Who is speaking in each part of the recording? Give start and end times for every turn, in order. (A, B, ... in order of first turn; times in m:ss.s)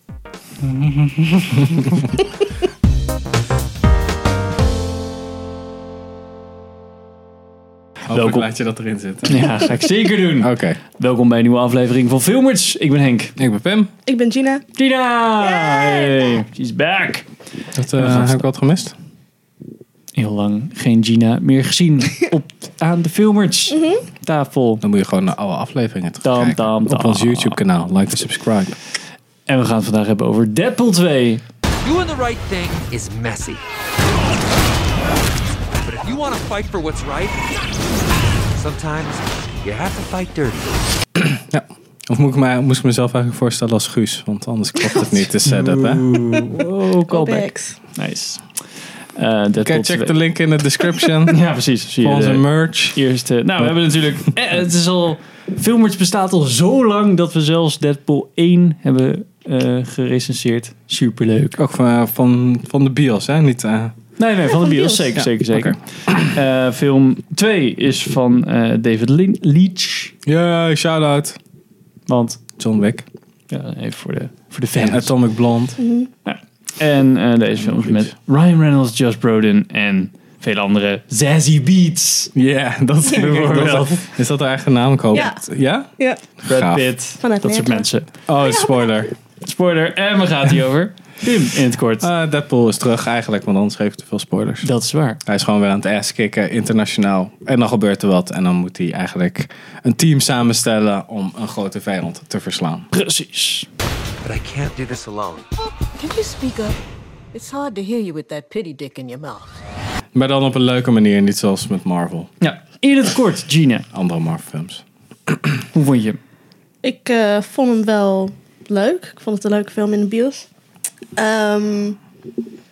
0:08.1-0:10.8 A
0:08.1-0:08.5 B
0:09.3-0:13.4 B
0:13.4-0:13.9 A
0:14.0-0:14.6 C
0:14.8-0:17.3 B
0:15.6-0:16.2 C
0:17.8-0:19.0 A
0:17.9-0:18.4 B
0:20.2-0:24.8 B
0:23.7-0:24.0 C
0:24.8-0:28.8 A
0:26.2-0:27.6 B
0:29.5-0:31.4 B
0:31.8-0:33.6 D
0:35.8-0:37.4 D
0:38.6-0:40.8 D
0:41.2-0:46.2 A
0:45.4-0:48.5 B
0:46.5-0:47.8 C
0:49.2-0:50.2 B
0:49.6-0:51.5 A
0:51.3-1:01.6 B
0:52.0-0:53.0 A
0:53.6-0:54.3 A
1:01.6-1:04.0 A
1:04.2-1:10.1 B
1:04.6-1:05.1 C
1:05.2-1:06.3 A
1:10.2-1:11.4 A
1:12.1-1:12.4 B
1:12.6-1:13.1 A
1:13.5-1:15.1 B
1:14.8-1:15.8 A
1:15.8-1:16.1 C
1:16.3-1:22.3 B
1:17.6-1:18.1 A
1:22.4-1:26.9 A
1:23.1-1:24.2 B
1:25.1-1:25.4 C
1:26.0-1:26.2 C
1:26.5-1:28.1 B
1:27.2-1:27.9 C
1:28.3-1:29.2 A
1:28.4-1:28.9 C
1:29.4-1:32.1 B
1:32.0-1:34.7 A
1:34.6-1:35.2 B
1:35.3-1:42.9 A
1:42.9-1:43.7 B
1:44.2-1:45.5 D
1:46.0-1:46.8 E
1:47.5-1:49.4 E
1:50.1-1:52.3 A
1:52.4-1:53.9 B
1:53.9-1:55.6 A
1:55.7-1:56.2 B
1:56.8-2:00.5 C
2:01.2-2:02.0 C